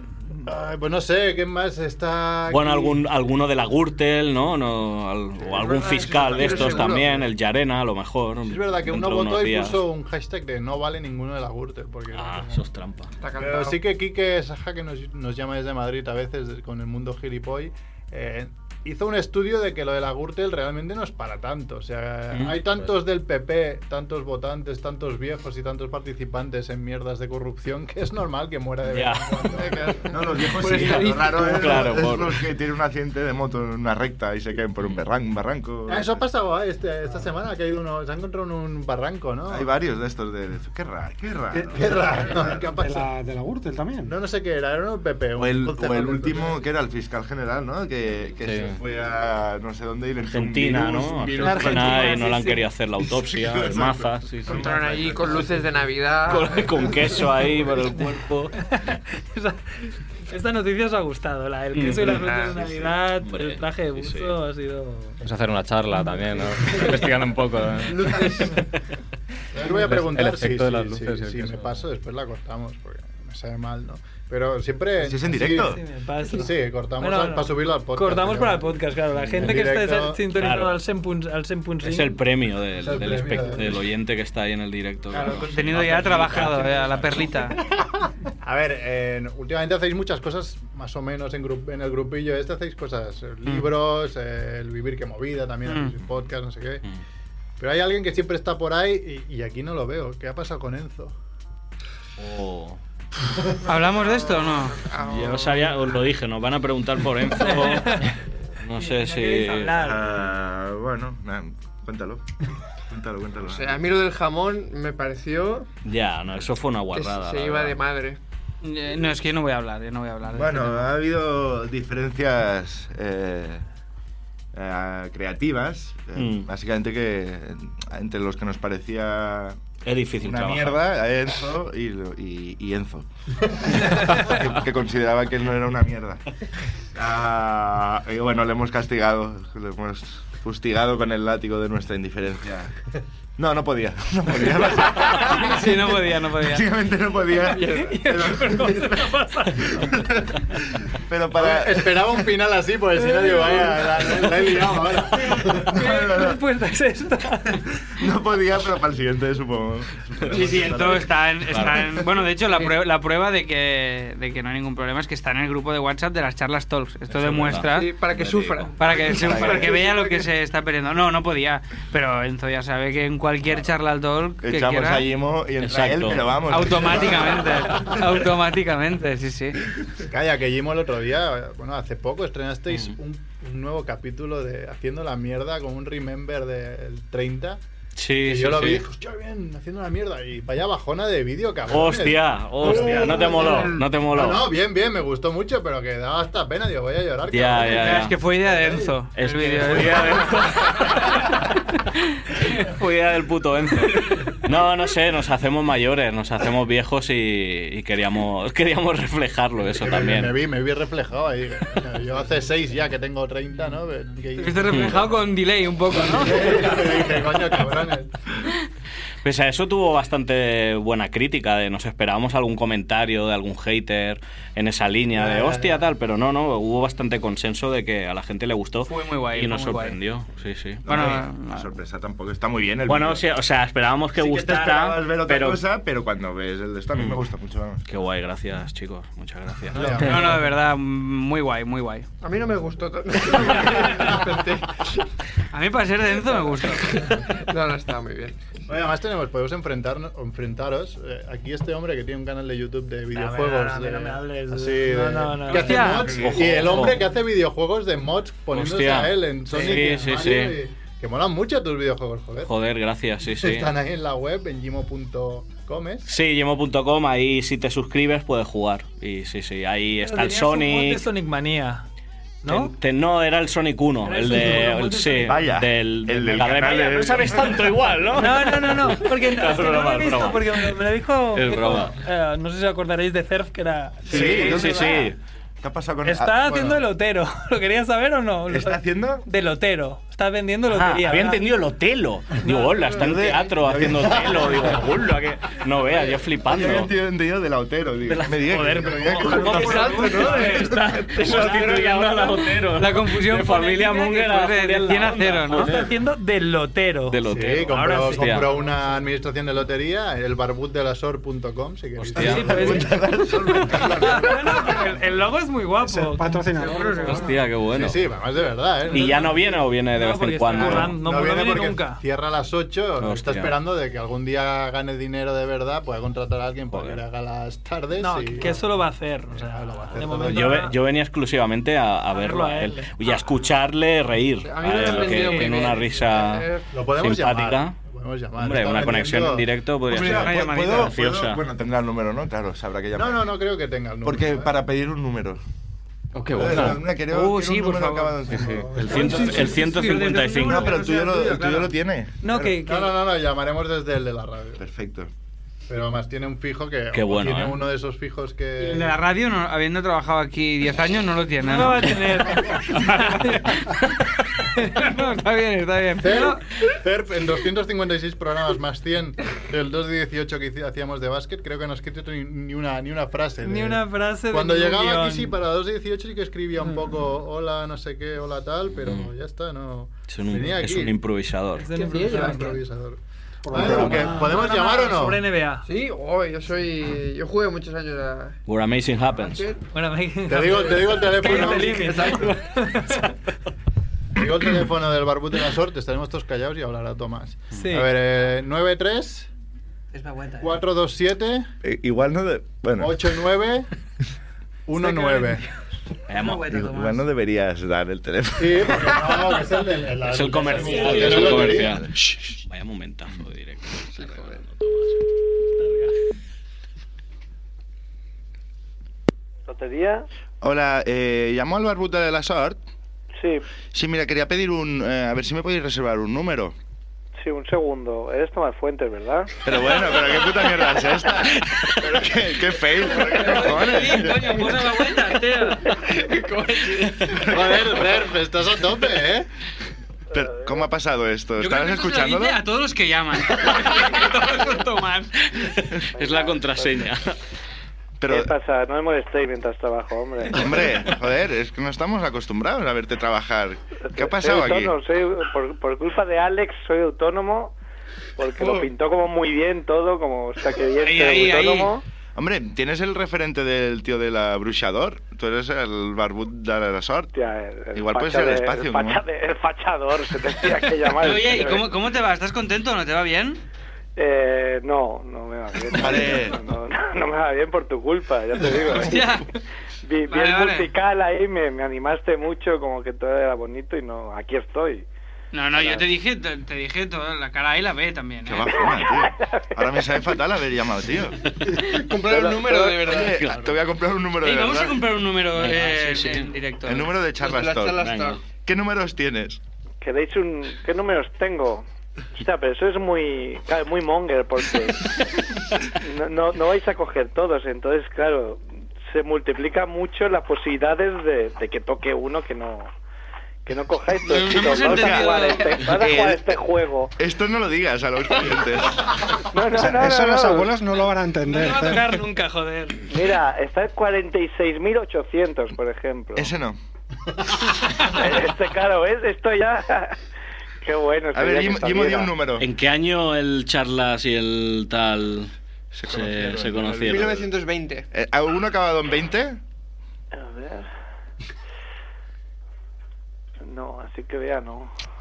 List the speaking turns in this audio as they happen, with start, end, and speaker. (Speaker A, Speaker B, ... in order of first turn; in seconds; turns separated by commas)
Speaker A: 0.4-3.0, Speaker B: 2.5-9.8, Speaker C: 5.5-7.3, Speaker A: 6.5-6.9, Speaker A: 8.4-12.7, Speaker B: 12.1-13.1, Speaker C: 13.2-13.8, Speaker A: 13.4-29.9, Speaker B: 22.3-22.6, Speaker B: 28.9-29.3, Speaker D: 29.6-36.2, Speaker C: 29.6-31.9, Speaker B: 31.5-32.4, Speaker A: 35.9-39.7, Speaker D: 39.5-42.5, Speaker A: 41.5-43.1, Speaker E: 42.7-44.2, Speaker A: 44.0-46.6, Speaker D: 45.4-52.3, Speaker F: 48.5-48.8, Speaker B: 50.2-54.7, Speaker G: 51.4-52.6, Speaker D: 53.0-55.5, Speaker C: 54.5-57.2, Speaker B: 56.3-58.6, Speaker G: 58.6-65.2, Speaker B: 61.8-62.2, Speaker C: 62.0-62.6, Speaker B: 63.2-64.3, Speaker F: 65.2-68.6, Speaker A: 69.5-78.8, Speaker F: 69.6-71.7, Speaker D: 75.0-75.8, Speaker G: 75.4-82.2, Speaker A: 79.3-80.4, Speaker B: 80.3-80.8, Speaker B: 81.8-87.3, Speaker A: 82.8-83.8, Speaker A: 85.1-85.6, Speaker H: 85.2-87.6, Speaker A: 86.4-86.7, Speaker A: 88.4-96.8, Speaker H: 95.7-95.9, Speaker A: 97.6-101.2, Speaker B: 102.2-102.8, Speaker H: 103.7-104.8, Speaker C: 103.9-106.0, Speaker B: 105.0-108.1, Speaker G: 107.4-108.1, Speaker B: 108.6-109.8, Speaker G: 108.8-110.2, Speaker D: 109.7-112.3, Speaker D: 112.9-113.9, Speaker C: 113.5-115.7, Speaker B: 115.8-117.8, Speaker C: 116.9-118.2, Speaker H: 118.6-120.9, Speaker D: 120.3-123.6, Speaker D: 124.5-129.6, Speaker B: 126.2-126.5, Speaker B: 129.8-130.8, Speaker D: 130.2-136.2, Speaker D: 136.9-142.7, Speaker D: 143.4-152.1, Speaker H: 145.0-146.7, Speaker C: 147.4-148.0, Speaker G: 147.6-150.0, Speaker A: 151.3-155.8, Speaker G: 153.0-153.7, Speaker G: 155.2-157.7, Speaker D: 155.5-156.4, Speaker D: 158.0-161.1, Speaker H: 160.3-167.9, Speaker B: 167.1-167.7, Speaker C: 167.6-170.3, Speaker B: 168.3-168.6, Speaker H: 168.8-175.1, Speaker B: 169.3-169.6, Speaker D: 174.4-177.9, Speaker B: 175.6-176.4, Speaker H: 176.5-179.6, Speaker A: 180.1-187.6, Speaker B: 188.0-188.8, Speaker A: 188.2-198.9, Speaker B: 191.7-194.5, Speaker C: 192.6-193.8, Speaker B: 197.3-198.2, Speaker H: 197.7-200.4, Speaker B: 199.1-201.4, Speaker B: 202.5-210.4, Speaker A: 209.7-215.2, Speaker H: 214.4-216.8, Speaker B: 214.7-215.0, Speaker A: 215.9-218.2, Speaker B: 219.2-231.0, Speaker A: 225.1-225.9, Speaker H: 228.8-230.0, Speaker D: 230.8-233.3, Speaker H: 230.9-231.7, Speaker B: 232.9-235.6, Speaker D: 234.1-237.8, Speaker B: 236.9-237.2, Speaker B: 237.9-240.1, Speaker A: 239.7-240.5, Speaker H: 240.0-242.1, Speaker C: 242.2-245.0, Speaker H: 245.5-247.2, Speaker C: 246.9-248.4, Speaker A: 248.7-262.5, Speaker G: 253.1-256.1, Speaker H: 255.5-256.1, Speaker B: 256.1-257.0, Speaker B: 258.5-260.6, Speaker G: 259.6-260.1, Speaker B: 262.4-263.7, Speaker A: 263.3-266.1, Speaker B: 266.1-271.1, Speaker G: 270.0-271.9, Speaker G: 272.4-272.7, Speaker B: 272.5-280.4, Speaker G: 274.0-275.4, Speaker D: 275.2-277.7, Speaker G: 278.2-285.0, Speaker F: 279.4-280.4, Speaker F: 281.4-281.9, Speaker B: 281.5-281.9, Speaker D: 284.1-286.8, Speaker A: 284.1-284.9, Speaker B: 284.1-285.2, Speaker G: 286.0-291.5, Speaker D: 288.5-289.2, Speaker B: 290.7-296.9, Speaker G: 292.4-293.2, Speaker D: 293.0-294.9, Speaker D: 296.4-301.8, Speaker G: 298.4-302.2, Speaker C: 299.3-300.6, Speaker B: 299.6-300.0, Speaker B: 301.2-305.8, Speaker H: 302.8-305.7, Speaker G: 305.6-308.5, Speaker B: 307.1-308.5, Speaker A: 307.3-312.9, Speaker F: 312.1-312.4, Speaker G: 312.2-313.0, Speaker D: 312.2-314.9, Speaker G: 313.6-317.3, Speaker E: 315.8-317.3, Speaker C: 316.6-317.3, Speaker B: 317.1-318.0, Speaker A: 317.7-319.3, Speaker G: 318.9-322.0, Speaker B: 318.9-321.0, Speaker A: 320.6-328.7, Speaker B: 323.0-323.6, Speaker B: 326.7-327.0, Speaker G: 328.0-330.8, Speaker A: 329.3-330.7, Speaker B: 330.2-337.8, Speaker G: 332.1-333.2, Speaker C: 334.4-336.7, Speaker A: 336.7-339.5, Speaker B: 338.4-341.4, Speaker D: 339.9-343.2, Speaker H: 339.9-340.9, Speaker A: 342.9-344.5, Speaker D: 344.0-345.4, Speaker F: 346.1-346.9, Speaker D: 346.3-349.6, Speaker H: 347.1-348.2, Speaker F: 348.3-348.8, Speaker A: 348.4-349.5, Speaker B: 348.8-350.8, Speaker G: 348.9-350.1, Speaker H: 349.6-351.7, Speaker D: 350.4-352.6, Speaker G: 352.2-352.9, Speaker A: 352.6-354.6, Speaker D: 354.6-355.1, Speaker A: 355.7-359.0, Speaker B: 356.9-357.6, Speaker H: 358.6-364.0, Speaker G: 361.4-363.7, Speaker G: 364.6-365.2, Speaker H: 364.6-366.4, Speaker A: 366.0-381.0, Speaker G: 373.4-375.4, Speaker B: 378.8-379.1, Speaker B: 380.1-381.7, Speaker G: 381.6-382.6, Speaker C: 381.7-382.6, Speaker A: 382.0-385.2, Speaker E: 383.4-384.3, Speaker G: 383.6-385.6, Speaker C: 385.6-388.4, Speaker B: 388.5-389.5, Speaker C: 389.2-389.6, Speaker G: 389.7-393.2, Speaker A: 390.3-392.2, Speaker C: 391.1-392.4, Speaker A: 394.1-399.3, Speaker G: 397.5-397.9, Speaker H: 399.9-400.6, Speaker A: 400.4-401.5, Speaker D: 401.6-403.0, Speaker A: 402.8-403.7, Speaker A: 404.7-405.4, Speaker G: 404.8-405.4, Speaker B: 406.1-406.4, Speaker H: 406.1-407.1, Speaker D: 406.4-409.1, Speaker A: 408.4-411.9, Speaker B: 410.0-415.0, Speaker G: 410.4-411.3, Speaker D: 410.9-411.9, Speaker C: 413.9-414.4, Speaker G: 415.6-415.9, Speaker I: 419.5-420.1, Speaker D: 420.4-422.6, Speaker I: 423.2-423.4, Speaker D: 423.7-426.6, Speaker I: 427.2-429.4, Speaker D: 429.4-434.3, Speaker H: 432.9-435.7, Speaker C: 434.1-434.9, Speaker C: 435.6-437.3, Speaker D: 437.2-437.6, Speaker A: 437.2-439.3, Speaker D: 440.1-442.4, Speaker I: 440.2-440.5, Speaker H: 441.4-445.4, Speaker B: 445.6-447.2, Speaker I: 445.9-446.9, Speaker D: 448.0-448.3, Speaker I: 448.1-450.7, Speaker D: 450.3-454.8, Speaker I: 453.8-457.5, Speaker I: 458.2-461.8, Speaker C: 458.4-458.7, Speaker H: 460.8-461.7, Speaker D: 462.2-467.1, Speaker I: 467.1-471.7, Speaker D: 467.7-469.0, Speaker H: 471.0-473.4, Speaker I: 474.0-479.2, Speaker D: 475.7-476.4, Speaker H: 478.8-479.3, Speaker I: 479.8-484.9, Speaker H: 480.1-480.7, Speaker H: 485.3-488.7, Speaker D: 488.3-491.3, Speaker I: 488.6-489.6, Speaker C: 491.4-493.3, Speaker D: 492.1-494.9, Speaker B: 493.2-493.5, Speaker H: 494.2-496.9, Speaker B: 495.4-496.3, Speaker D: 496.6-499.4, Speaker C: 497.2-498.2, Speaker B: 497.8-498.2, Speaker I: 499.8-501.6, Speaker I: 502.2-504.9, Speaker I: 505.8-512.7, Speaker I: 513.5-516.9, Speaker H: 514.1-515.7, Speaker D: 514.5-516.4, Speaker D: 517.0-519.3, Speaker I: 519.2-520.5, Speaker E: 519.6-522.0, Speaker G: 521.2-522.9, Speaker I: 522.9-526.3, Speaker D: 526.2-526.6, Speaker I: 527.7-530.0, Speaker I: 530.6-532.2, Speaker D: 531.1-532.5, Speaker B: 532.4-535.3, Speaker D: 535.7-537.3, Speaker B: 535.9-537.1, Speaker C: 536.8-537.9, Speaker D: 537.9-539.4, Speaker I: 540.1-540.7, Speaker I: 543.4-544.7